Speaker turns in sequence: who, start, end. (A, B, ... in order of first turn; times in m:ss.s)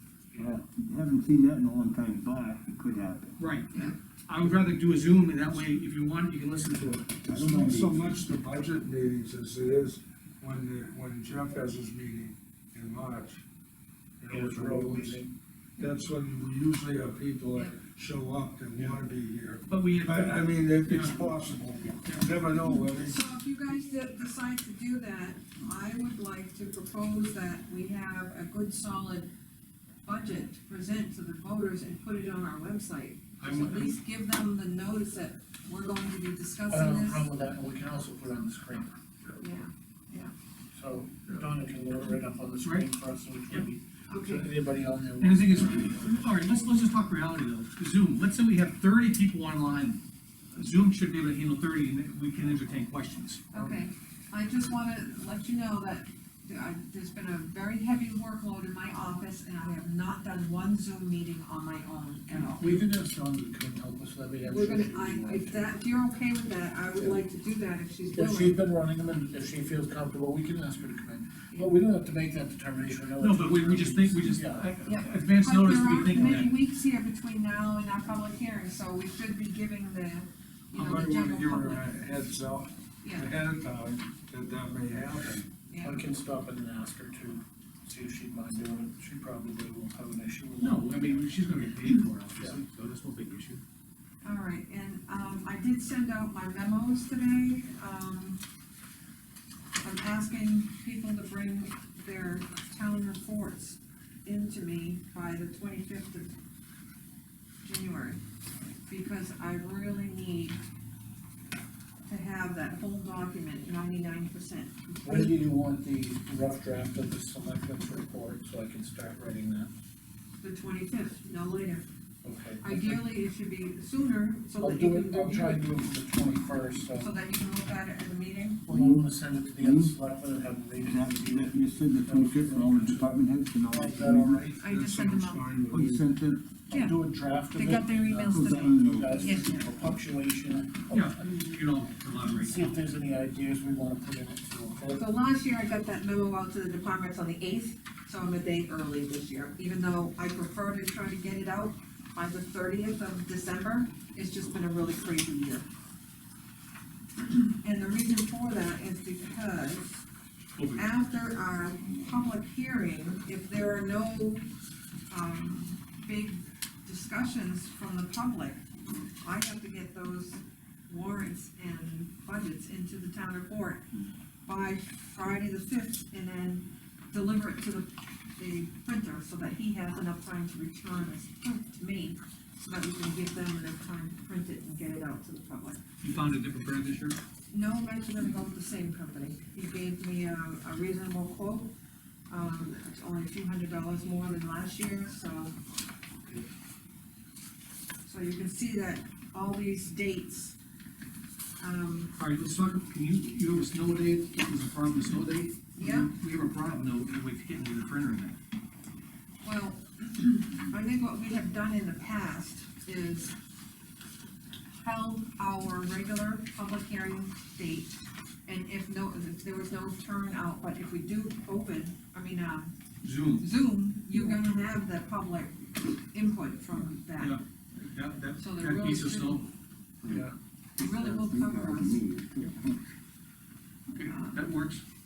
0:00.3-0:00.6 A
0:00.4-0:03.3 B
0:03.4-0:07.4 C
0:07.2-0:08.2 B
0:07.4-0:13.4 D
0:14.2-0:15.2 D
0:14.3-0:15.3 A
0:15.8-0:23.2 D
0:19.6-0:21.2 C
0:22.0-0:22.3 C
0:23.0-0:29.3 E
0:30.0-0:37.2 E
0:33.4-0:33.9 C
0:36.7-0:38.9 A
0:39.4-0:40.3 E
0:40.7-0:46.3 A
0:42.6-0:42.9 C
0:44.1-0:44.5 E
0:45.2-0:50.0 C
0:50.5-0:53.8 C
0:53.5-1:02.8 E
1:02.6-1:05.7 A
1:04.5-1:08.6 E
1:08.1-1:14.7 A
1:13.2-1:16.6 C
1:14.8-1:21.9 E
1:20.7-1:25.4 D
1:23.0-1:23.3 E
1:25.7-1:26.0 E
1:25.8-1:31.4 A
1:30.6-1:33.6 C
1:34.2-1:38.4 E
1:39.8-1:46.3 E
1:47.6-1:48.2 E
1:48.9-1:50.6 E
1:52.1-1:55.4 E
1:55.0-1:59.7 A
2:00.4-2:01.9 E
2:02.2-2:03.0 A
2:02.6-2:05.7 E
2:04.6-2:07.1 A
2:07.0-2:08.6 E
2:08.7-2:09.0 B
2:08.7-2:14.5 A
2:09.6-2:09.9 B
2:10.8-2:14.3 B
2:14.2-2:16.1 D
2:14.6-2:15.5 E
2:15.7-2:16.4 B
2:16.7-2:21.5 A
2:16.7-2:17.0 E
2:17.5-2:19.7 E
2:18.2-2:19.4 B
2:20.9-2:22.7 C
2:22.4-2:25.1 A
2:24.9-2:35.7 E
2:37.2-2:40.0 E
2:40.6-2:40.9 C
2:40.8-2:44.5 E
2:45.1-2:48.6 E
2:49.2-2:53.9 E
2:54.4-3:05.8 E
3:06.0-3:07.2 C
3:07.5-3:11.7 E
3:12.3-3:15.5 E
3:18.0-3:20.5 E
3:21.6-3:22.1 E
3:22.1-3:28.4 C
3:25.8-3:26.1 E
3:29.4-3:33.3 E
3:34.8-3:42.7 E
3:43.0-3:43.5 C
3:43.4-3:47.4 E
3:47.2-3:49.5 C
3:48.4-3:49.4 E
3:50.0-3:50.3 A
3:50.8-3:52.0 E
3:50.8-3:52.8 B
3:53.9-3:54.8 C
3:54.0-3:54.4 E